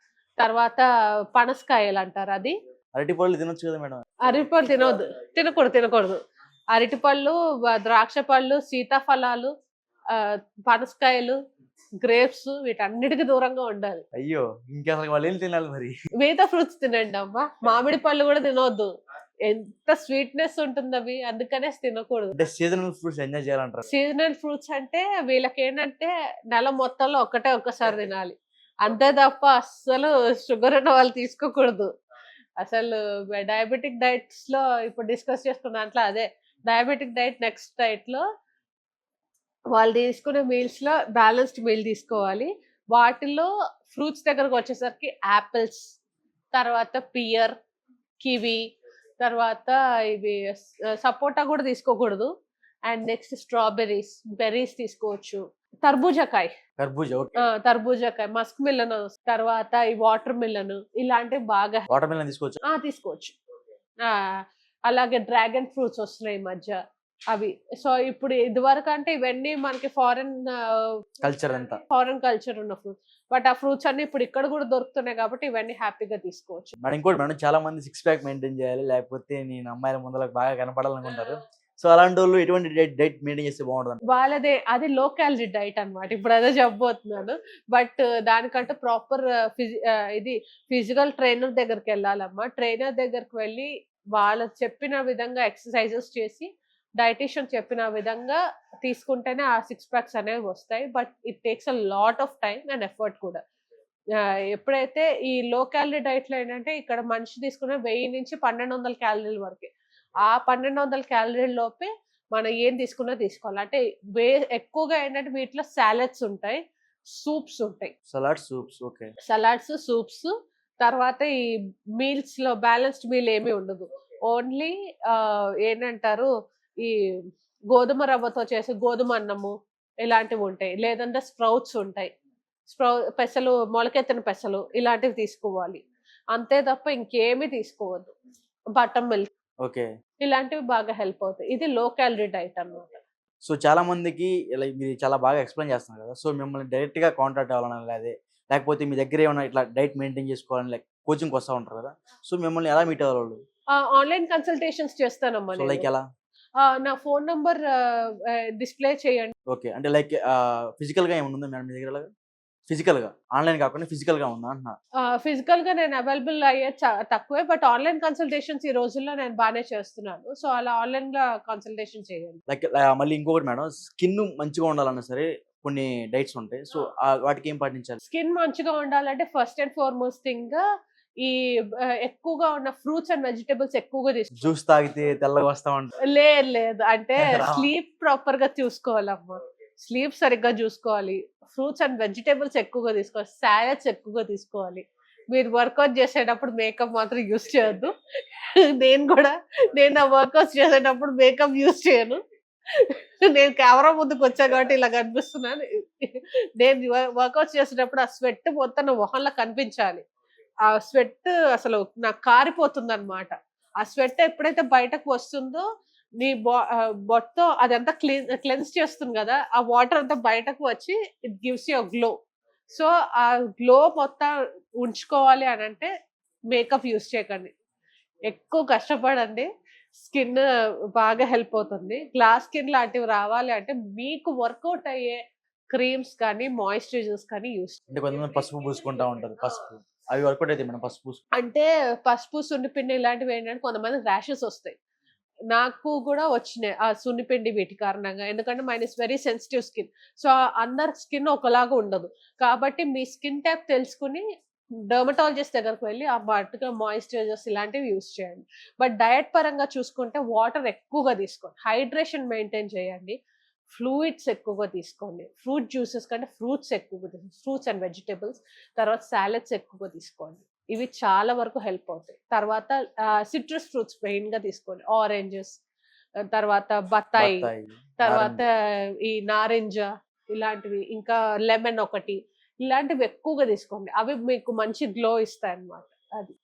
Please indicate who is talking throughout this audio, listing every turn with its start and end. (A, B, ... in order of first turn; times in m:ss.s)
0:00.4-0:02.5 A
0:02.9-0:04.0 B
0:04.2-0:06.2 A
0:06.7-0:09.5 A
0:10.1-0:11.4 A
0:12.0-0:14.0 A
0:14.1-0:15.9 B
0:16.2-0:18.9 A
0:19.4-0:22.4 A
0:22.3-0:23.9 B
0:23.9-0:31.9 A
0:32.6-0:38.2 A
0:39.7-0:45.9 A
0:46.5-0:47.5 A
0:48.2-0:48.6 A
0:49.2-0:52.3 A
0:52.8-0:56.5 A
0:56.8-0:57.4 B
0:57.4-1:01.9 A
1:01.9-1:02.6 B
1:02.6-1:03.3 A
1:04.0-1:04.4 A
1:04.9-1:06.8 A
1:07.3-1:11.0 A
1:11.2-1:11.8 B
1:11.9-1:16.7 A
1:16.8-1:24.0 B
1:24.1-1:43.4 A
1:44.2-1:49.7 A
1:50.2-1:57.9 A
1:58.1-1:59.1 B
1:59.2-2:01.3 A
2:02.0-2:06.3 A
2:07.7-2:12.1 A
2:12.7-2:18.1 A
2:18.7-2:19.3 A
2:20.2-2:23.0 A
2:23.4-2:33.4 B
2:33.7-2:35.9 A
2:35.5-2:36.0 B
2:36.6-2:39.3 A
2:39.5-2:42.1 B
2:42.7-2:44.8 B
2:45.0-2:52.4 A
2:52.5-2:58.0 B
2:58.0-3:00.6 A
3:01.2-3:04.5 A
3:04.4-3:05.9 B
3:06.0-3:30.0 A
3:07.2-3:07.7 B
3:30.6-3:35.6 A
3:36.2-3:42.1 A
3:42.7-3:45.9 A
3:46.5-3:47.5 A
3:48.3-3:49.5 A
3:50.0-3:55.2 A
3:55.7-3:57.8 A
3:57.9-4:01.2 B
4:01.4-4:04.8 A
4:05.5-4:14.2 A
4:14.8-4:23.2 A
4:23.7-4:35.6 A
4:36.3-4:46.3 A
4:37.2-4:38.4 B